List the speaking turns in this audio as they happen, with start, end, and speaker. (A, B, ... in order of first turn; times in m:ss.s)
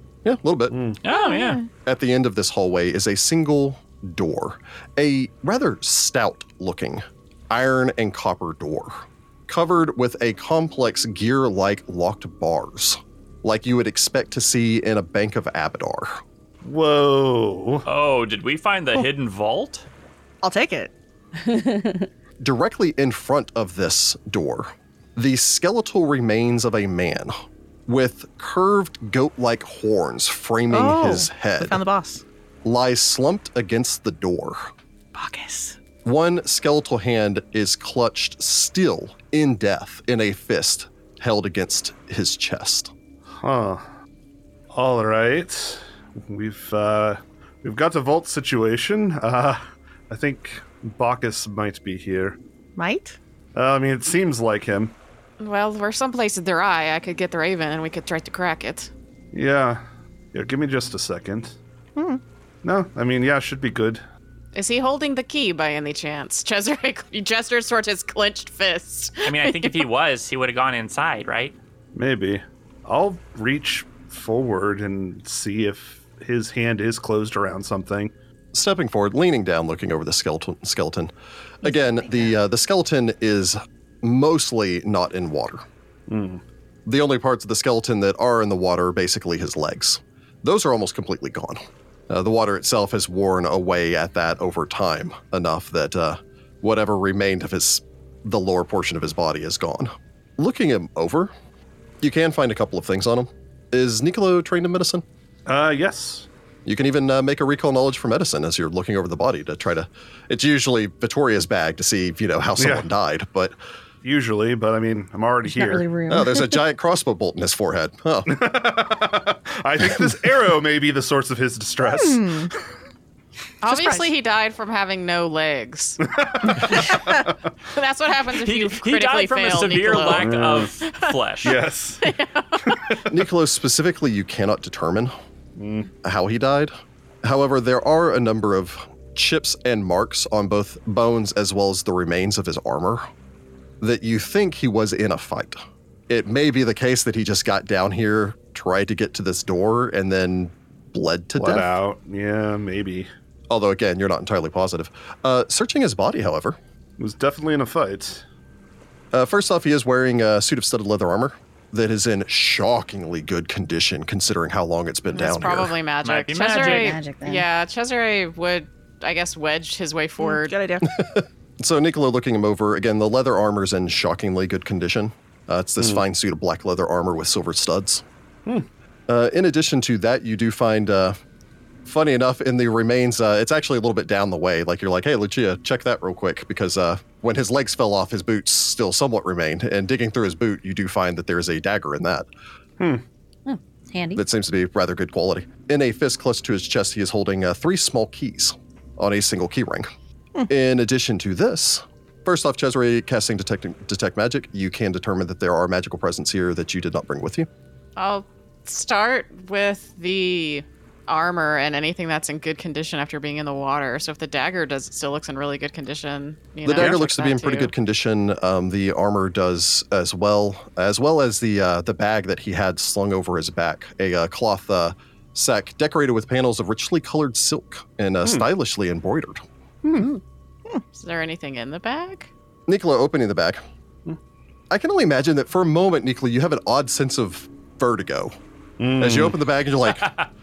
0:00.2-0:00.8 A
0:00.7-0:01.0 B
0:01.0-0:01.6 C
0:01.8-0:16.2 A
0:16.6-0:17.9 B
0:17.9-0:19.8 C
0:20.4-0:20.9 D
0:21.4-0:22.1 E
0:22.4-0:27.4 A
0:27.9-0:31.8 A
0:30.7-0:32.2 D
0:32.6-0:34.7 A
0:35.1-0:35.8 D
0:36.0-0:42.9 A
0:43.4-0:43.8 B
0:44.7-0:52.4 B
0:52.8-0:53.2 D
0:53.6-0:54.9 B
0:55.4-0:58.9 F
0:59.3-0:59.8 B
1:00.3-1:01.6 B
1:02.0-1:02.2 D
1:02.6-1:04.0 B
1:04.5-1:09.8 F
1:09.2-1:11.6 C
1:12.0-1:18.1 B
1:18.5-1:25.6 A
1:26.1-1:26.4 B
1:26.9-1:41.3 A
1:42.0-1:45.0 A
1:45.5-1:46.3 B
1:46.7-1:53.6 A
1:52.6-1:52.9 B
1:54.0-1:55.9 B
1:55.5-1:56.6 E
1:56.1-1:58.4 A
1:58.3-2:02.5 B
2:01.9-2:02.5 D
2:03.6-2:06.0 F
2:03.7-2:04.1 D
2:06.0-2:07.3 B
2:06.7-2:07.0 F
2:07.7-2:11.2 F
2:08.4-2:11.6 C
2:10.1-2:10.7 B
2:11.4-2:13.1 B
2:12.0-2:12.8 F
2:13.1-2:15.1 A
2:15.6-2:15.9 B
2:16.0-2:23.1 A
2:23.8-2:31.8 A
2:31.4-2:33.1 B
2:33.5-2:36.6 A
2:37.0-2:38.2 B
2:39.1-2:45.8 A
2:45.1-2:50.6 F
2:46.0-2:47.0 C
2:46.6-2:47.5 E
2:50.2-2:50.9 D
2:50.8-2:58.0 A
2:59.1-3:01.2 A
3:01.8-3:12.3 A
3:13.5-3:14.2 E
3:14.2-3:19.9 A
3:20.5-3:27.5 A
3:28.0-3:37.7 F
3:36.6-3:49.4 A
3:49.8-3:50.1 B
3:50.9-3:52.3 F
3:52.7-3:53.6 A
3:54.7-3:58.4 A
3:58.8-3:59.4 B
3:59.0-4:00.1 A
4:00.0-4:00.3 C